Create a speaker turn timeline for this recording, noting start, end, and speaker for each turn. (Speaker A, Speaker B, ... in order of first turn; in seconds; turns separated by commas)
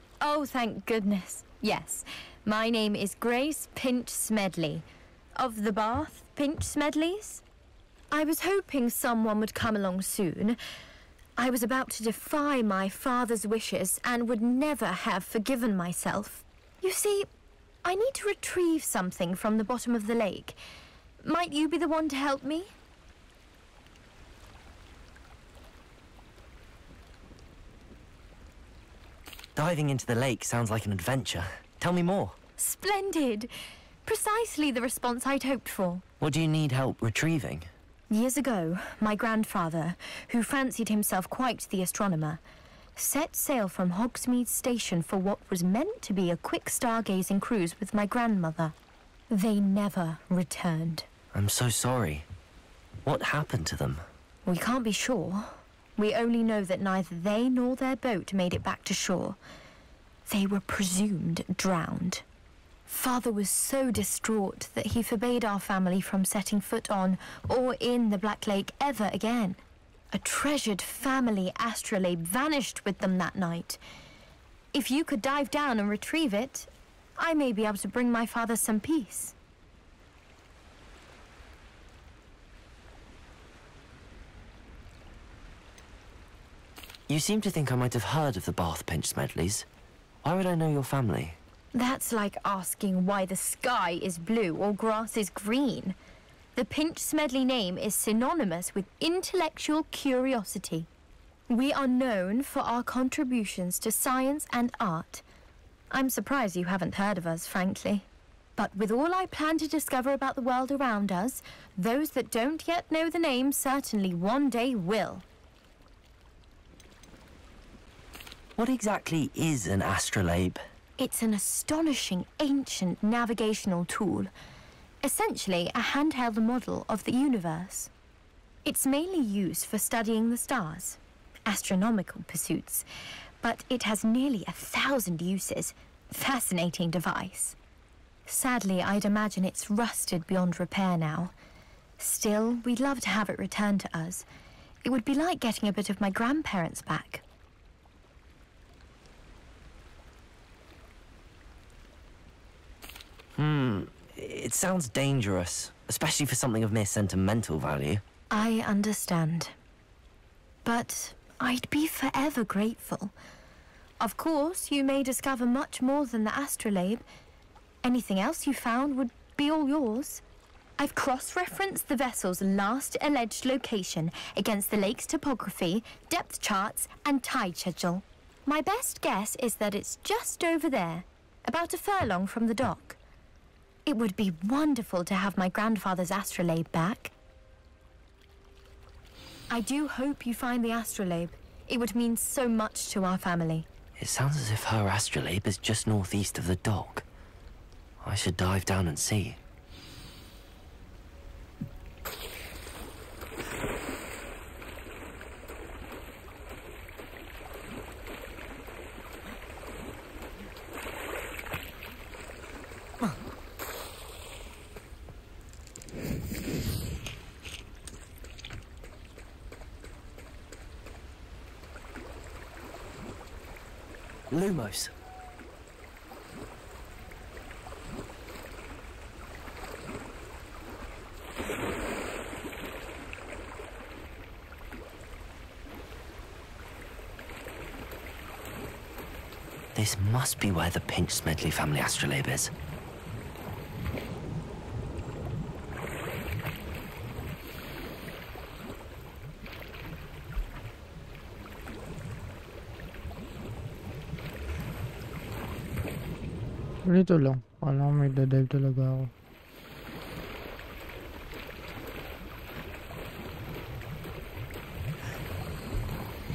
Speaker A: 0.2-4.8, Speaker A: 5.4-7.4, Speaker A: 8.1-10.6, Speaker A: 11.4-17.3, Speaker A: 17.8-20.6, Speaker A: 21.2-22.7, Speaker B: 29.6-32.4, Speaker A: 32.6-33.5, Speaker A: 34.0-36.0, Speaker B: 36.2-37.7, Speaker A: 38.1-42.4, Speaker A: 43.0-48.7, Speaker A: 49.3-51.1, Speaker B: 51.3-52.2, Speaker B: 53.0-54.0, Speaker A: 54.4-59.4, Speaker A: 60.3-62.2, Speaker A: 62.9-69.6, Speaker A: 70.1-73.8, Speaker A: 74.7-79.3, Speaker B: 87.1-89.7, Speaker B: 90.2-91.4, Speaker A: 91.7-95.9, Speaker A: 96.5-100.9, Speaker A: 101.5-105.2, Speaker A: 105.9-115.2, Speaker B: 118.5-120.6, Speaker A: 121.0-124.3, Speaker A: 125.0-127.9, Speaker A: 128.6-132.8, Speaker A: 133.4-137.6, Speaker A: 138.2-141.3, Speaker A: 142.0-144.2, Speaker A: 144.8-147.2, Speaker B: 153.4-158.0, Speaker A: 158.3-159.5, Speaker A: 160.6-163.1, Speaker A: 164.0-167.0, Speaker A: 167.8-170.2, Speaker A: 170.8-183.0, Speaker A: 183.8-187.1, Speaker A: 189.5-193.7, Speaker B: 194.0-197.1, Speaker B: 198.0-199.4, Speaker B: 224.3-224.9, Speaker B: 239.7-242.5, Speaker C: 256.8-259.1